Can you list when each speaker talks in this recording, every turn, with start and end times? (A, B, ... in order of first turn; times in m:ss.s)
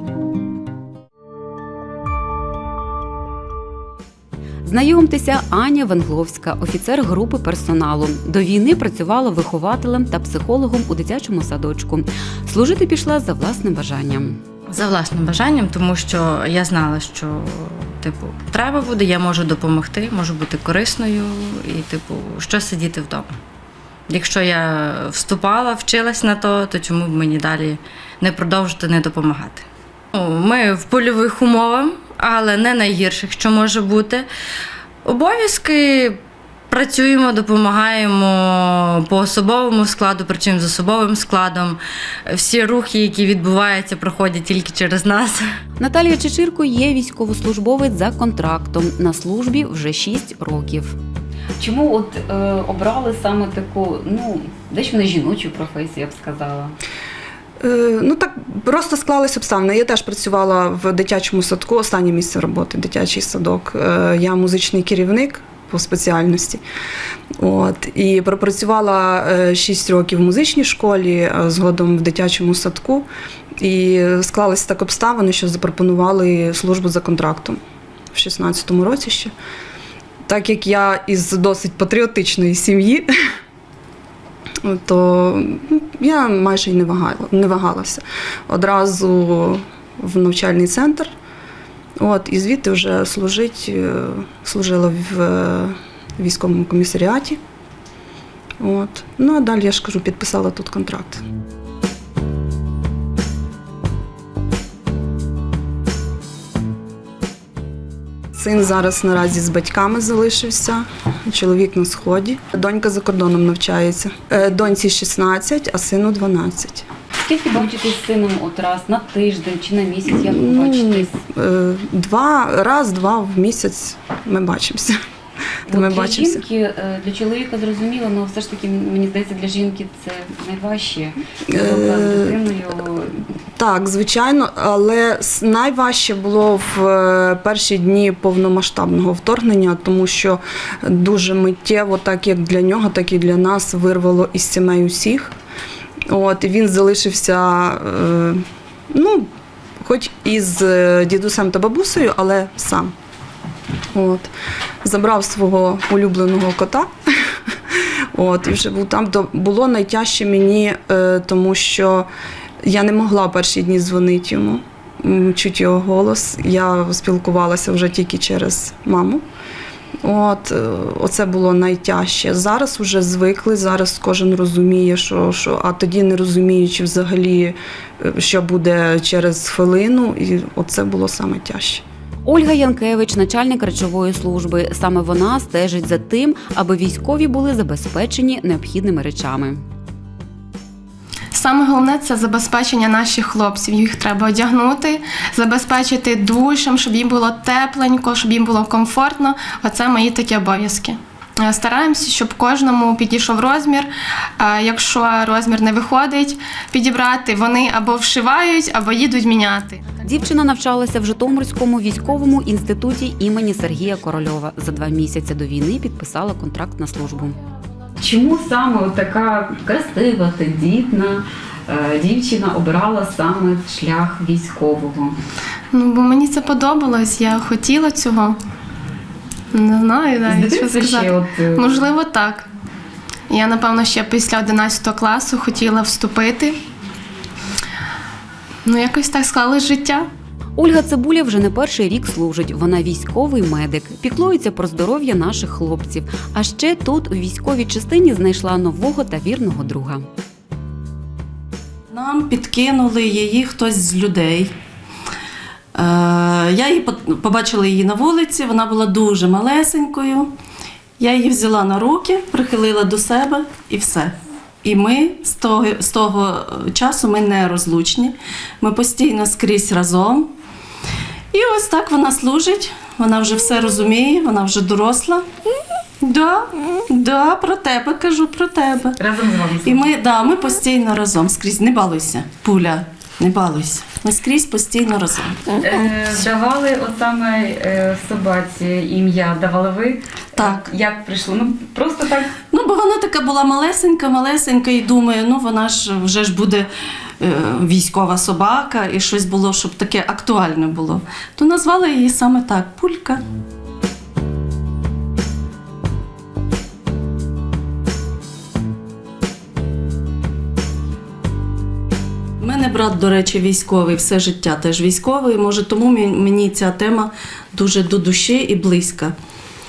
0:04.6-0:14.4 A
0:14.7-0:23.4 B
0:24.1-0:34.3 B
0:35.0-0:45.5 B
0:45.8-0:51.0 A
0:51.6-0:56.8 A
0:57.6-1:06.6 C
1:07.4-1:13.1 C
1:13.6-1:17.6 C
1:18.1-1:19.3 C
1:20.3-1:23.1 C
1:24.6-1:31.1 C
1:32.0-1:37.4 C
1:38.6-1:41.2 C
1:48.4-1:56.9 C
1:57.3-2:01.2 A
2:00.1-2:05.0 C
2:05.7-2:13.2 A
2:05.7-2:06.4 C
2:11.5-2:12.4 C
2:13.6-2:25.3 C
2:26.1-2:29.3 C
2:29.8-2:32.9 C
2:33.9-2:34.3 C
2:34.8-2:36.9 C
2:37.7-2:42.1 C
2:42.6-2:49.2 C
2:50.0-3:01.8 C
3:02.2-3:09.6 A
3:11.3-3:30.0 D
3:30.0-3:37.4 A
3:38.0-3:45.2 A
3:45.7-3:48.4 D
3:49.5-3:52.5 D
3:50.3-3:51.8 A
3:53.3-3:56.6 D
3:58.6-4:00.1 D
4:00.6-4:10.1 A
4:11.9-4:14.5 E
4:15.8-4:20.3 E
4:21.0-4:30.3 E
4:31.3-4:35.2 E
4:36.0-4:39.0 E
4:39.0-4:39.9 A
4:39.6-4:45.5 E
4:45.6-4:52.3 A
4:52.5-4:56.7 E
4:57.2-5:03.2 E
5:12.4-5:19.2 E